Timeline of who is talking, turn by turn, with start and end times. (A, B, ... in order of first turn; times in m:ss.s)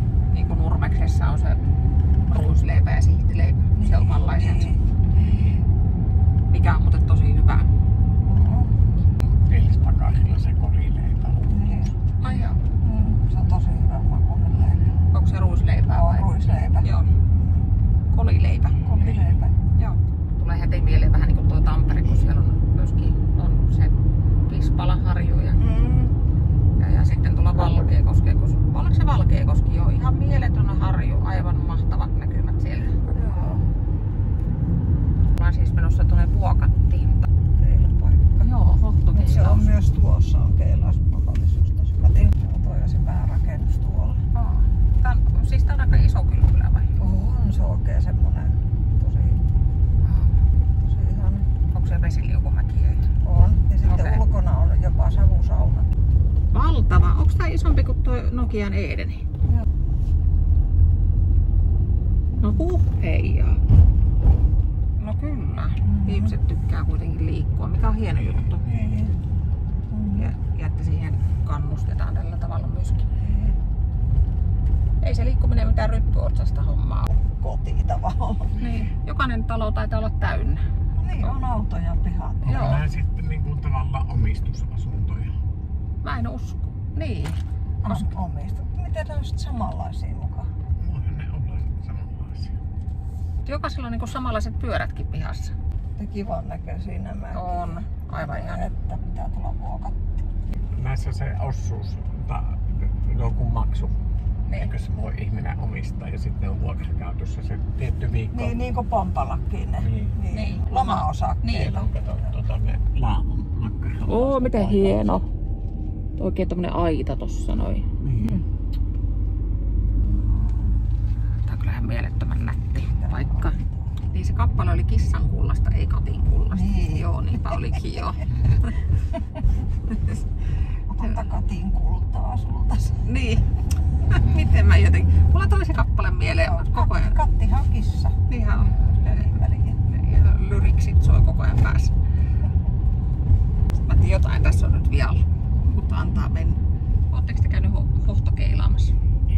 0:00.3-0:01.6 A
0:02.3-0:04.8 A
0:03.8-0:05.6 B
0:06.5-0:07.7 A
0:08.2-0:08.8 B
0:09.2-0:11.9 C
0:11.5-0:14.9 B
0:12.2-0:12.6 A
0:15.1-0:16.3 A
0:15.9-0:17.7 B
0:16.8-0:17.1 A
0:18.1-0:19.2 A
0:18.9-0:19.6 B
0:19.8-0:24.0 A
0:24.5-0:25.6 A
0:25.6-0:26.1 B
0:26.8-0:33.4 A
0:33.1-0:33.7 B
0:35.4-0:37.3 A
0:37.6-0:38.5 B
0:38.4-0:39.7 A
0:39.1-0:44.2 B
0:44.3-0:46.9 A
0:47.0-0:49.4 B
0:50.0-0:50.4 A
0:50.8-0:51.5 B
0:51.7-0:53.1 A
0:53.2-0:55.9 B
0:53.8-0:54.2 A
0:56.5-0:59.2 A
1:02.4-1:03.6 A
1:05.0-1:08.6 A
1:05.8-1:06.4 B
1:08.1-1:09.0 C
1:08.6-1:09.2 B
1:09.9-1:10.3 B
1:10.2-1:13.1 A
1:13.2-1:13.6 B
1:15.0-1:17.1 A
1:17.1-1:18.6 B
1:18.6-1:20.6 A
1:21.0-1:22.7 B
1:22.4-1:25.3 C
1:22.5-1:22.8 A
1:26.0-1:28.1 A
1:27.8-1:30.5 B
1:30.8-1:32.6 C
1:33.4-1:35.6 A
1:36.0-1:40.2 B
1:37.3-1:38.7 A
1:40.6-1:44.0 C
1:44.6-1:48.6 C
1:48.3-1:51.9 B
1:49.8-1:50.2 C
1:50.3-1:51.8 A
1:51.5-1:55.2 C
1:54.1-1:55.3 A
1:56.2-1:57.9 A
1:58.0-1:58.4 C
2:00.0-2:00.8 B
2:01.5-2:03.6 A
2:03.0-2:03.9 B
2:04.1-2:08.7 A
2:06.5-2:07.7 B
2:09.1-2:09.4 B
2:10.9-2:13.1 B
2:13.0-2:13.5 A
2:14.0-2:17.2 A
2:16.4-2:19.8 B
2:18.3-2:19.4 A
2:19.9-2:21.9 A
2:23.9-2:26.6 A
2:27.1-2:28.9 A